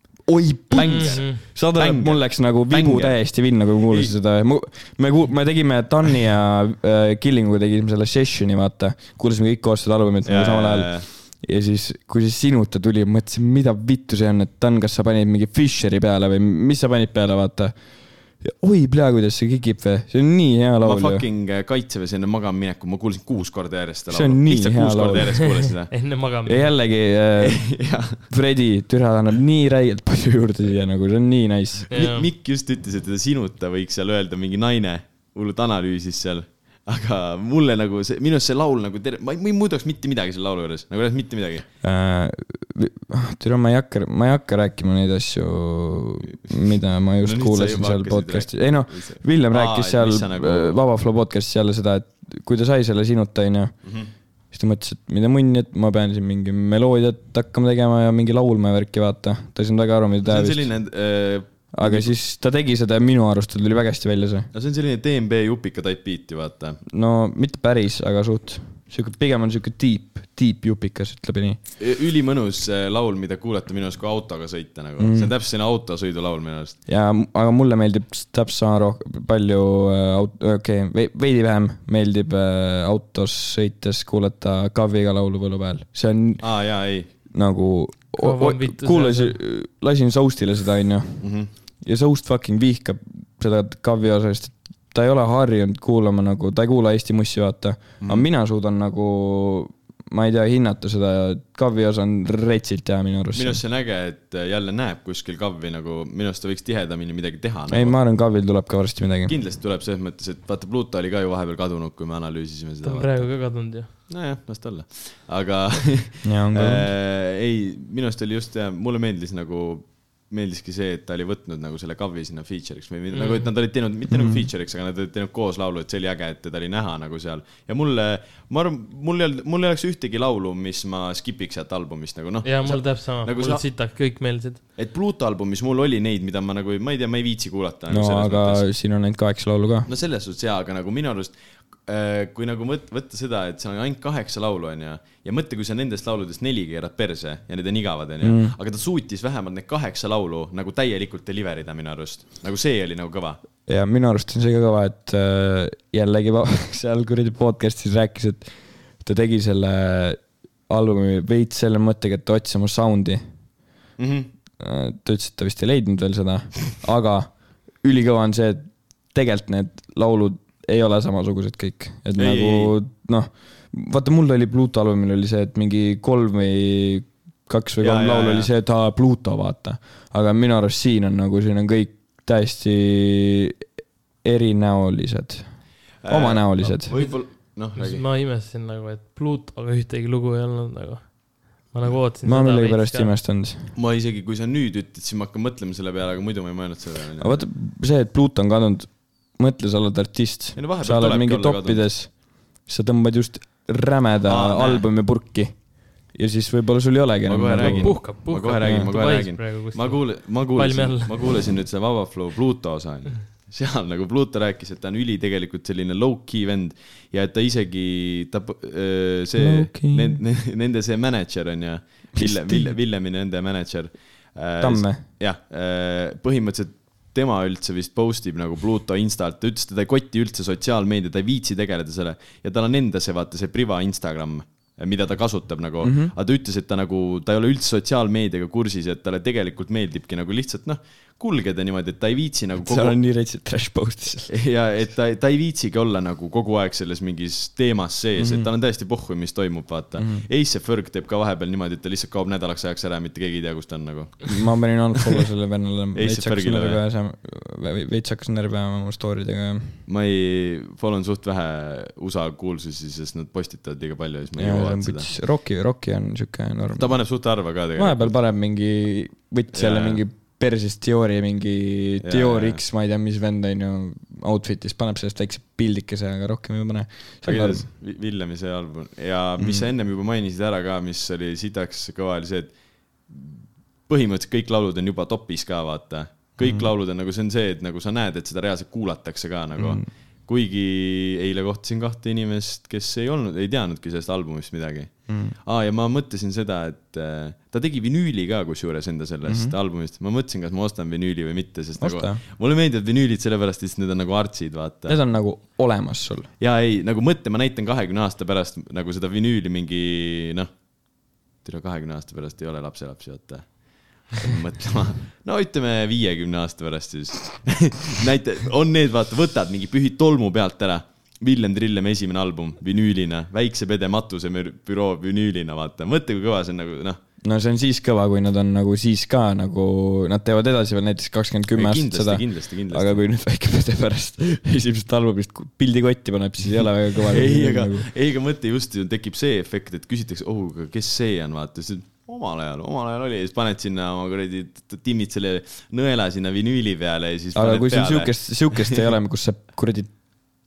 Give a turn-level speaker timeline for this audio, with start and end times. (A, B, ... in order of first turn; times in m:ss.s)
0:00.3-0:21.2 A
0:00.7-0:03.2 B
0:00.8-0:01.4 C
0:03.9-0:04.1 B
0:10.2-0:11.1 B
0:20.8-0:25.9 B
0:24.1-0:25.4 A
0:25.9-0:26.8 C
0:26.5-0:31.9 A
0:27.4-0:28.2 B
0:31.9-0:32.3 C
0:31.9-0:41.7 B
0:41.8-0:53.8 A
0:47.2-0:50.8 B
0:53.8-0:54.1 B
0:54.5-1:00.7 A
1:00.2-1:02.1 B
1:01.7-1:04.5 A
1:04.5-1:06.8 B
1:06.9-1:11.6 A
1:11.8-1:16.8 B
1:15.0-1:15.3 A
1:16.9-1:26.5 A
1:26.4-1:27.1 B
1:27.3-1:31.2 A
1:28.2-1:29.4 C
1:31.2-1:31.5 B
1:31.8-1:43.6 A
1:38.0-1:38.3 B
1:43.4-1:48.0 B
1:47.7-1:49.4 A
1:49.3-1:53.3 B
1:52.8-1:53.9 C
1:54.1-2:13.6 B
1:56.2-1:56.9 A
2:03.1-2:03.5 C
2:04.1-2:04.5 A
2:12.4-2:14.6 C
2:14.8-2:18.7 B
2:17.9-2:19.9 A
2:19.9-2:21.4 B
2:21.9-2:33.4 B
2:28.2-2:28.6 A
2:33.7-2:43.2 A
2:44.0-2:44.3 B
2:44.6-3:03.6 A
2:52.2-2:52.8 B
2:57.8-2:58.5 B
3:04.2-3:05.5 A
3:06.0-3:08.0 B
3:06.0-3:06.9 A
3:06.9-3:13.2 C
3:12.2-3:13.7 A
3:13.8-3:17.4 B
3:17.2-3:28.1 A
3:20.6-3:21.8 B
3:24.3-3:24.9 B
3:27.3-4:03.0 B
3:27.6-3:31.2 C
3:28.6-3:28.9 A
3:39.4-3:40.2 A
3:42.2-3:42.8 A
3:44.6-3:45.0 A
3:55.8-3:56.1 A
4:02.6-4:04.3 A
4:04.3-4:14.4 B
4:08.2-4:08.5 A
4:10.0-4:10.3 A
4:14.3-4:19.8 A
4:16.0-4:16.8 B
4:19.9-4:25.1 B
4:24.4-4:27.0 A
4:26.8-4:28.2 B
4:27.8-4:37.7 A
4:29.5-4:30.0 B
4:32.0-4:32.6 B
4:37.2-4:42.5 B
4:39.4-4:39.7 A
4:43.1-5:05.0 B
4:46.4-4:46.7 A
4:49.6-4:49.9 A
4:55.1-4:55.4 A
4:59.3-4:59.5 A
5:01.8-5:02.2 A
5:04.9-5:06.3 A
5:06.4-5:10.5 B
5:11.4-5:27.0 B
5:27.2-5:37.9 A
5:31.5-5:33.0 B
5:37.1-5:48.8 B
5:47.4-5:50.1 A